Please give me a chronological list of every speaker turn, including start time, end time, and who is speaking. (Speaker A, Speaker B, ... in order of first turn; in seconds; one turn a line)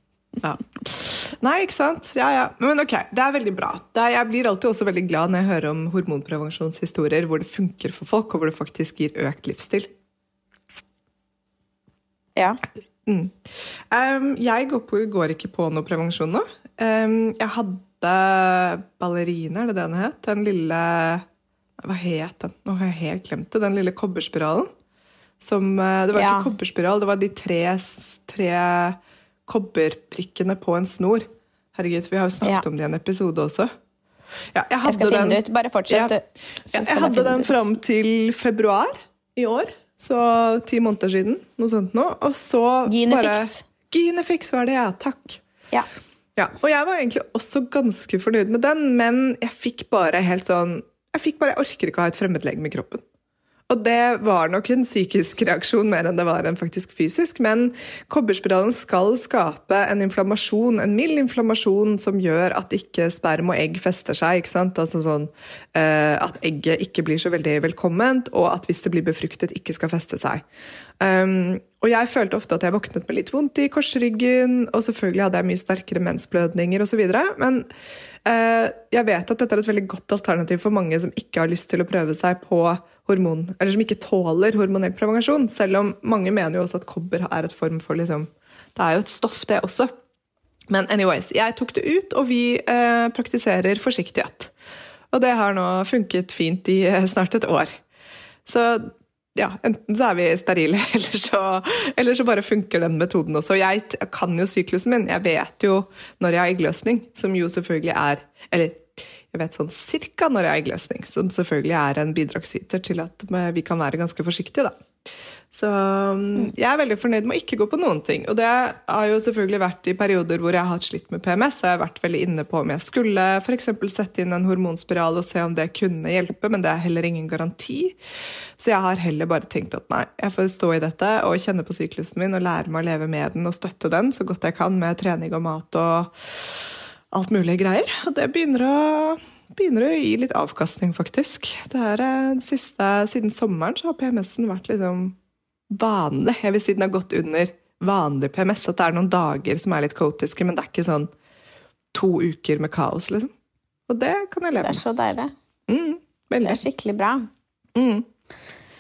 Speaker A: 0.4-9.9
Speaker A: 13.1-13.4
Speaker A: 13.9-21.2
Speaker A: 21.8-24.7
Speaker A: 25.4-33.7
Speaker B: 26.1-26.5
Speaker A: 34.5-36.1
Speaker B: 34.9-37.5
Speaker A: 36.7-45.4
Speaker B: 42.9-43.6
Speaker A: 46.4-53.0
Speaker A: 53.7-70.4
Speaker A: 71.0-77.7
Speaker A: 78.2-89.9
Speaker A: 90.7-94.5
Speaker A: 95.1-97.8
Speaker A: 98.5-114.8
Speaker A: 115.5-128.0
Speaker A: 128.6-145.2
Speaker A: 145.7-151.1
Speaker A: 151.9-153.3
Speaker A: 153.9-154.8
Speaker B: 154.6-155.3
Speaker A: 155.7-156.6
Speaker B: 156.4-157.3
Speaker A: 157.7-158.1